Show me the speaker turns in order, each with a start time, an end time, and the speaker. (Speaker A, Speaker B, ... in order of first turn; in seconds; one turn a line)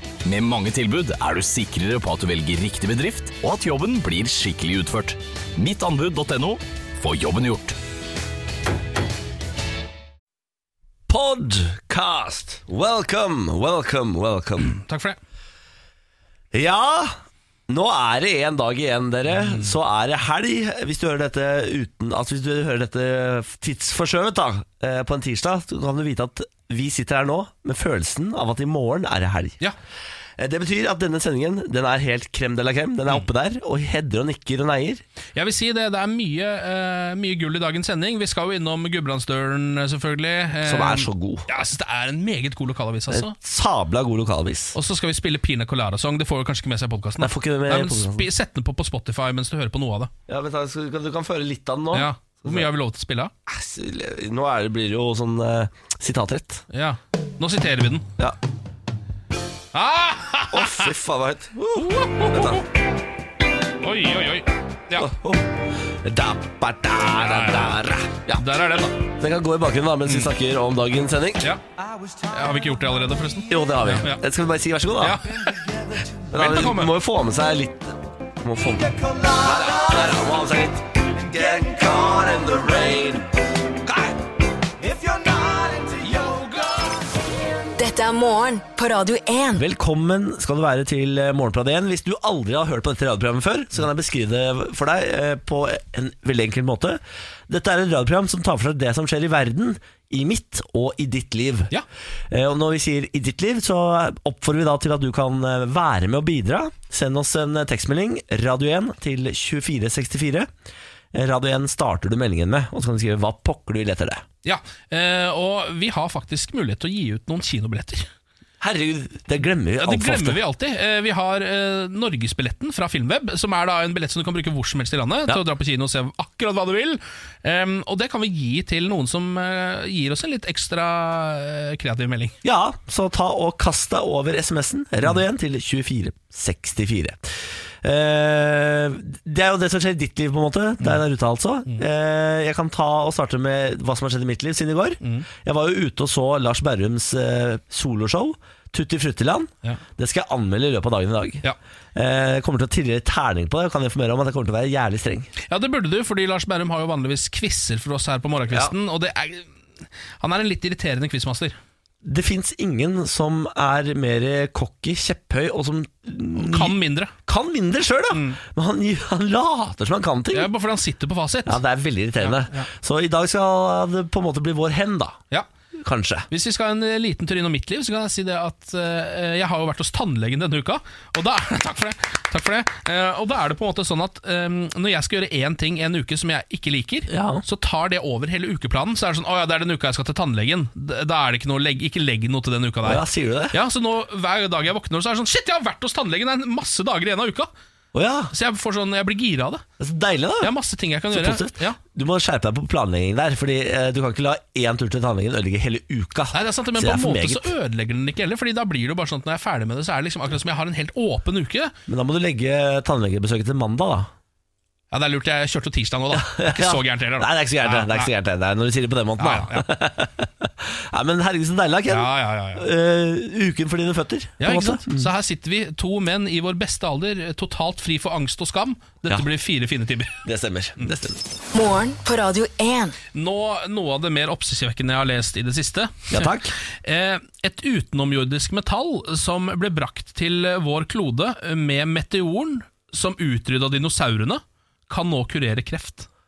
Speaker A: 0.2-7.8
Speaker B: 11.1-14.7
Speaker C: 14.6-15.2
Speaker B: 16.5-17.2
Speaker B: 17.7-29.6
Speaker C: 19.4-19.7
Speaker B: 30.4-35.0
Speaker C: 35.4-43.3
Speaker B: 40.6-41.5
Speaker B: 43.1-44.8
Speaker C: 44.8-50.1
Speaker B: 47.2-48.3
Speaker B: 50.3-52.7
Speaker C: 51.9-53.3
Speaker B: 53.5-56.7
Speaker C: 56.7-58.1
Speaker C: 59.7-60.9
Speaker B: 60.5-62.6
Speaker C: 61.8-62.7
Speaker C: 63.8-65.1
Speaker B: 65.0-68.5
Speaker C: 67.2-69.1
Speaker B: 69.0-71.5
Speaker C: 70.1-70.3
Speaker C: 72.3-74.2
Speaker B: 73.5-84.2
Speaker C: 75.0-75.5
Speaker C: 76.3-76.9
Speaker B: 84.8-87.0
Speaker D: 87.8-89.6
Speaker B: 89.6-101.7
Speaker B: 102.3-110.5
Speaker B: 111.1-114.2
Speaker C: 114.4-118.1
Speaker B: 118.6-120.4
Speaker C: 119.8-132.3
Speaker B: 132.4-151.4
Speaker C: 145.0-145.3
Speaker B: 151.9-155.3
Speaker C: 155.5-159.5
Speaker C: 160.2-161.6
Speaker B: 162.0-170.5
Speaker C: 166.4-167.1
Speaker C: 168.1-168.4
Speaker C: 170.3-171.6
Speaker B: 171.5-175.2
Speaker C: 172.2-172.7
Speaker B: 175.8-176.3
Speaker C: 176.3-197.5
Speaker B: 187.1-187.4
Speaker B: 192.8-193.6
Speaker B: 197.9-198.3
Speaker C: 198.3-199.6
Speaker B: 199.8-200.5
Speaker C: 200.4-201.8
Speaker B: 201.1-207.5
Speaker C: 206.3-211.7
Speaker B: 211.9-214.1
Speaker C: 214.9-218.1
Speaker B: 216.1-225.1
Speaker C: 219.2-219.7
Speaker C: 221.9-222.7
Speaker C: 224.4-230.2
Speaker B: 230.2-231.2
Speaker D: 231.5-233.0
Speaker C: 233.1-246.1
Speaker B: 236.1-236.6